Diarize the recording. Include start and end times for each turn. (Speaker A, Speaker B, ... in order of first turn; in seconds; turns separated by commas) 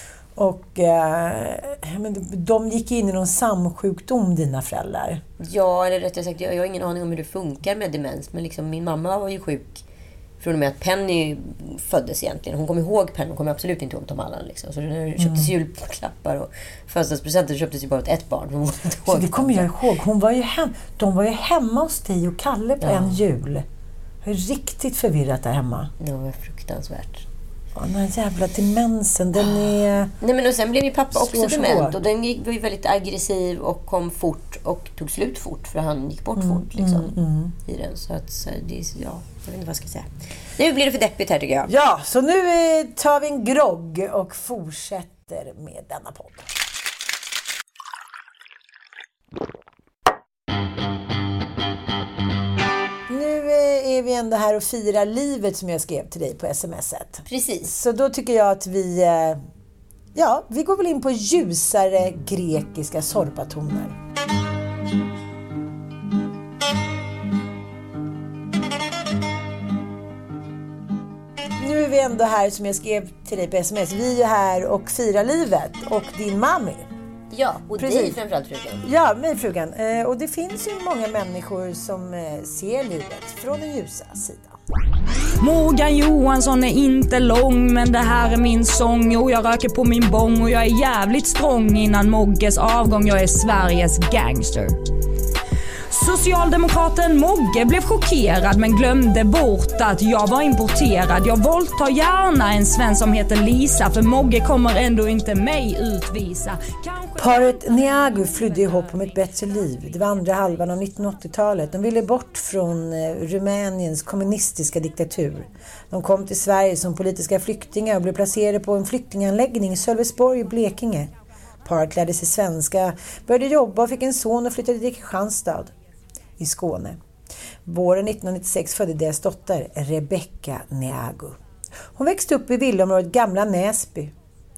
Speaker A: 0.4-5.2, Speaker B: 5.4-9.8, Speaker B: 10.4-19.7, Speaker A: 15.2-15.5, Speaker A: 19.1-23.6, Speaker B: 22.8-23.2, Speaker A: 24.2-25.9, Speaker B: 26.0-27.3, Speaker A: 27.8-30.1, Speaker B: 30.2-37.1, Speaker A: 31.1-32.0, Speaker A: 36.4-37.5, Speaker B: 37.6-41.7, Speaker A: 41.7-46.5, Speaker A: 53.1-59.4, Speaker B: 57.3-57.7, Speaker A: 60.1-64.0, Speaker A: 71.6-76.9, Speaker B: 77.3-78.8, Speaker A: 77.8-78.2, Speaker A: 78.8-84.6, Speaker C: 85.4-94.8, Speaker C: 95.9-107.6, Speaker A: 107.2-121.1, Speaker A: 121.7-125.7, Speaker A: 126.4-127.0, Speaker A: 127.7-131.4, Speaker A: 132.0-134.1